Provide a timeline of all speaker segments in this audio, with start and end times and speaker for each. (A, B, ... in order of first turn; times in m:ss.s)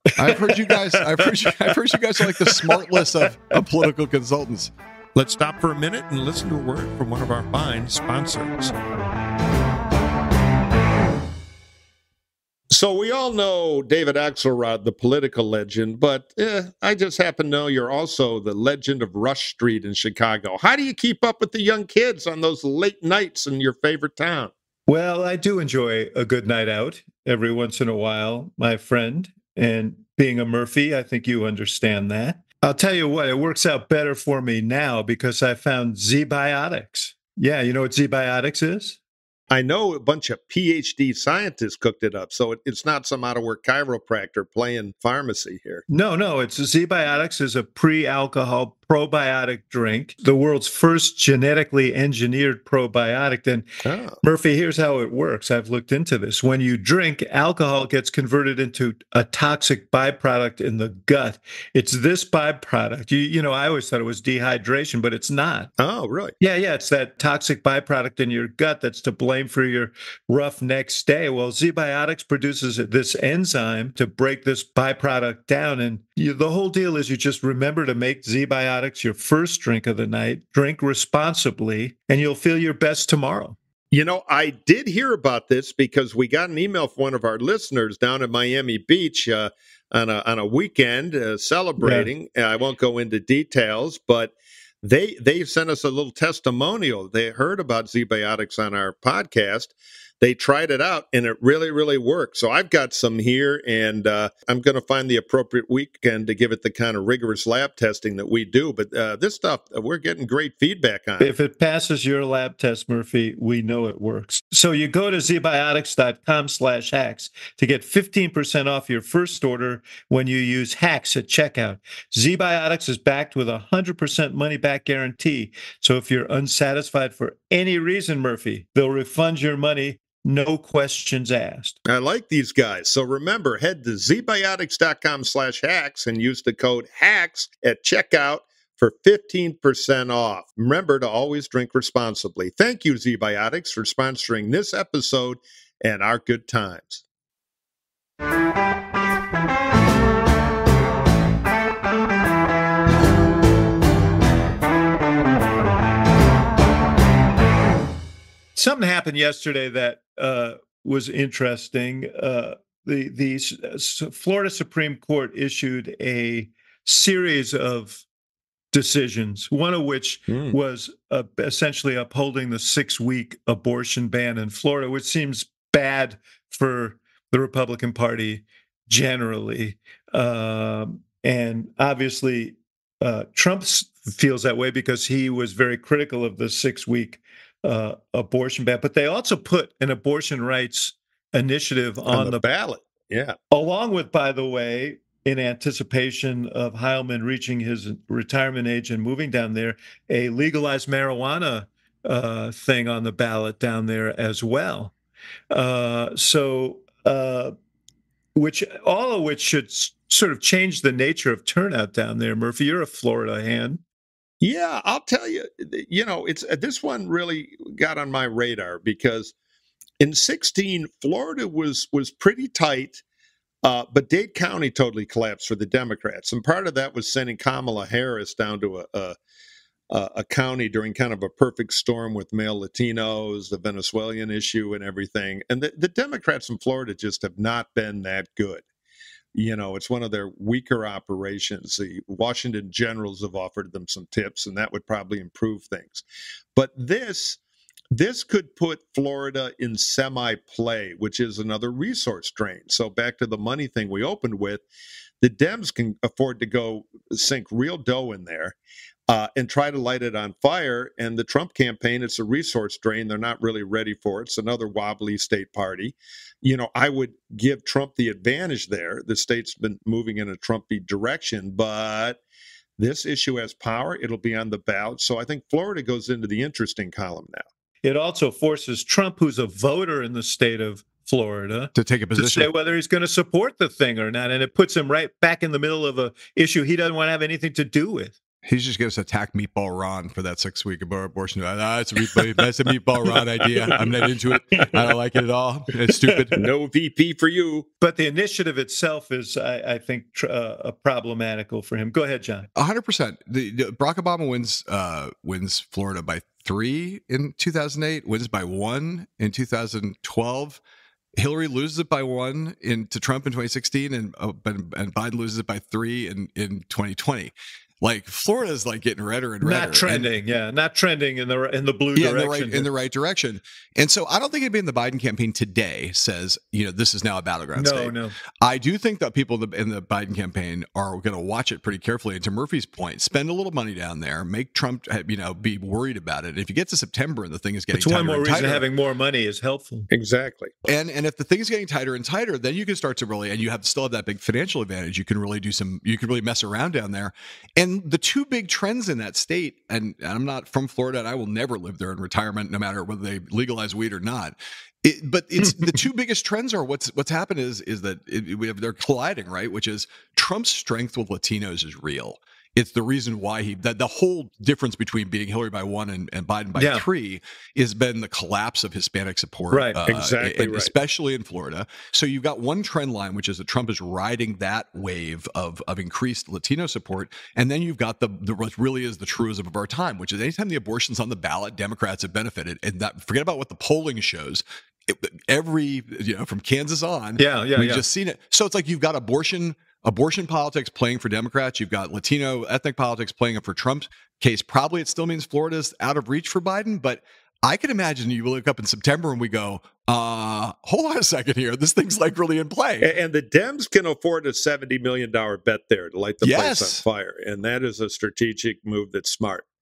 0:00.2-0:04.7 A
0:00.2-0:01.3 B
0:02.5-0:02.9 B
0:05.2-0:08.8 C
0:12.7-0:24.5 C
0:24.9-0:39.0 B
0:39.5-0:45.8 C
0:45.9-0:53.7 B
0:53.8-0:54.2 C
0:54.2-1:05.7 B
1:05.8-1:06.4 C
1:06.4-1:23.6 B
1:23.9-1:51.3 C
1:31.8-1:32.1 B
1:51.2-2:11.8 B
2:11.9-2:27.0 C
2:38.6-2:48.0 B
2:48.7-3:12.4 B
2:50.3-2:50.6 C
3:12.1-3:13.4 C
3:13.5-3:24.9 B
3:25.5-3:27.6 B
3:28.4-3:33.8 B
3:34.4-3:39.3 C
3:40.0-3:43.0 C
3:43.6-3:49.2 C
3:49.9-3:58.6 C
3:59.4-4:06.0 C
4:06.6-4:07.4 C
4:07.9-4:14.6 C
4:15.2-4:18.6 C
4:19.1-4:32.2 C
4:32.8-4:37.4 C
4:37.8-4:48.2 B
4:41.8-4:42.5 A
4:48.4-4:56.4 A
4:56.4-4:57.7 C
4:57.8-5:02.5 B
5:02.6-5:10.6 A
5:11.2-5:20.1 A
5:19.4-5:22.7 B
5:22.0-5:38.6 A
5:27.6-5:28.2 B
5:37.7-5:39.9 B
5:39.9-5:40.5 C
5:40.7-6:42.9 A
5:55.4-5:55.7 B
6:06.6-6:06.8 B
6:09.5-6:09.8 B
6:09.9-6:10.7 C
6:27.2-6:27.8 B
6:42.8-6:49.4 C
6:46.2-6:46.8 A